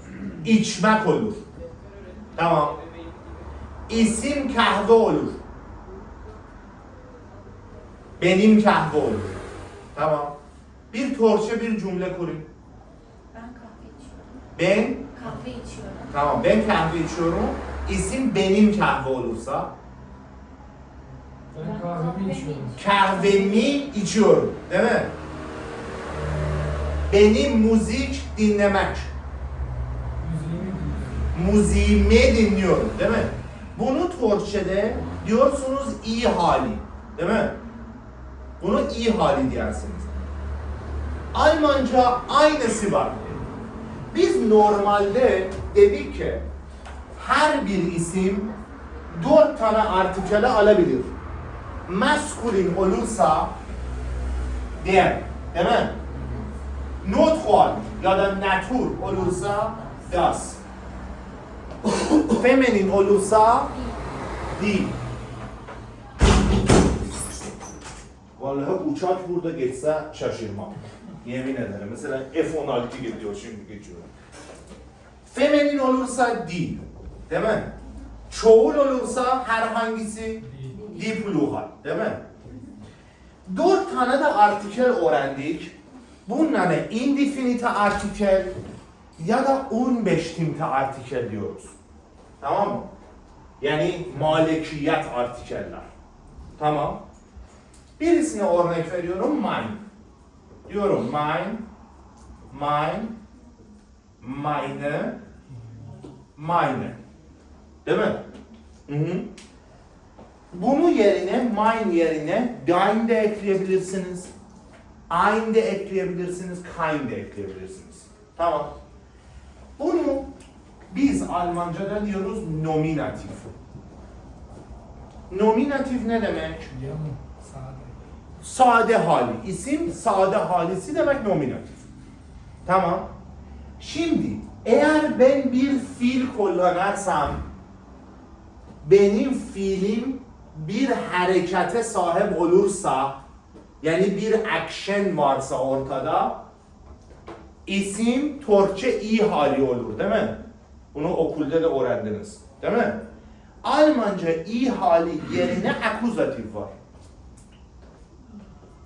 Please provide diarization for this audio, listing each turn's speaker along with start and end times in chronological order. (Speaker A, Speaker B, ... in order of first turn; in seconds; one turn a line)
Speaker A: 0.4-1.4
Speaker A: 2.4-2.8
Speaker A: 3.9-5.4
Speaker A: 8.2-9.4
Speaker A: 9.9-10.3
Speaker A: 10.9-12.5
Speaker B: 13.3-14.3
Speaker A: 14.6-15.1
Speaker B: 15.1-16.1
Speaker A: 16.1-19.7
Speaker C: 21.5-22.8
Speaker B: 21.6-23.7
Speaker A: 22.8-25.1
Speaker A: 27.1-29.1
Speaker C: 30.2-31.3
Speaker A: 31.3-37.6
Speaker A: 38.6-40.1
Speaker A: 41.3-43.2
Speaker A: 44.1-46.5
Speaker A: 47.1-48.5
Speaker A: 49.1-51.1
Speaker A: 51.9-53.5
Speaker A: 54.8-56.0
Speaker A: 57.0-60.6
Speaker B: 59.1-60.0
Speaker A: 62.2-63.8
Speaker A: 64.5-64.9
Speaker A: 68.4-74.1
Speaker A: 75.2-77.7
Speaker A: 78.3-82.2
Speaker C: 80.4-80.9
Speaker A: 83.5-85.7
Speaker A: 86.3-88.5
Speaker A: 89.2-91.7
Speaker A: 92.4-92.9
Speaker A: 93.6-95.8
Speaker A: 96.6-97.0
Speaker A: 98.0-99.8
Speaker A: 100.7-101.6
Speaker A: 102.5-103.2
Speaker A: 104.2-105.2
Speaker A: 106.4-107.0
Speaker A: 107.8-108.2
Speaker A: 108.9-109.3
Speaker A: 110.5-114.3
Speaker A: 115.1-118.7
Speaker A: 119.8-120.3
Speaker A: 120.9-123.5
Speaker A: 125.3-126.7
Speaker C: 126.7-128.0
Speaker A: 128.4-131.8
Speaker A: 132.7-133.1
Speaker A: 133.8-137.4
Speaker A: 138.8-143.2
Speaker A: 143.8-146.4
Speaker A: 147.7-150.4
Speaker A: 150.9-153.0
Speaker A: 153.6-156.7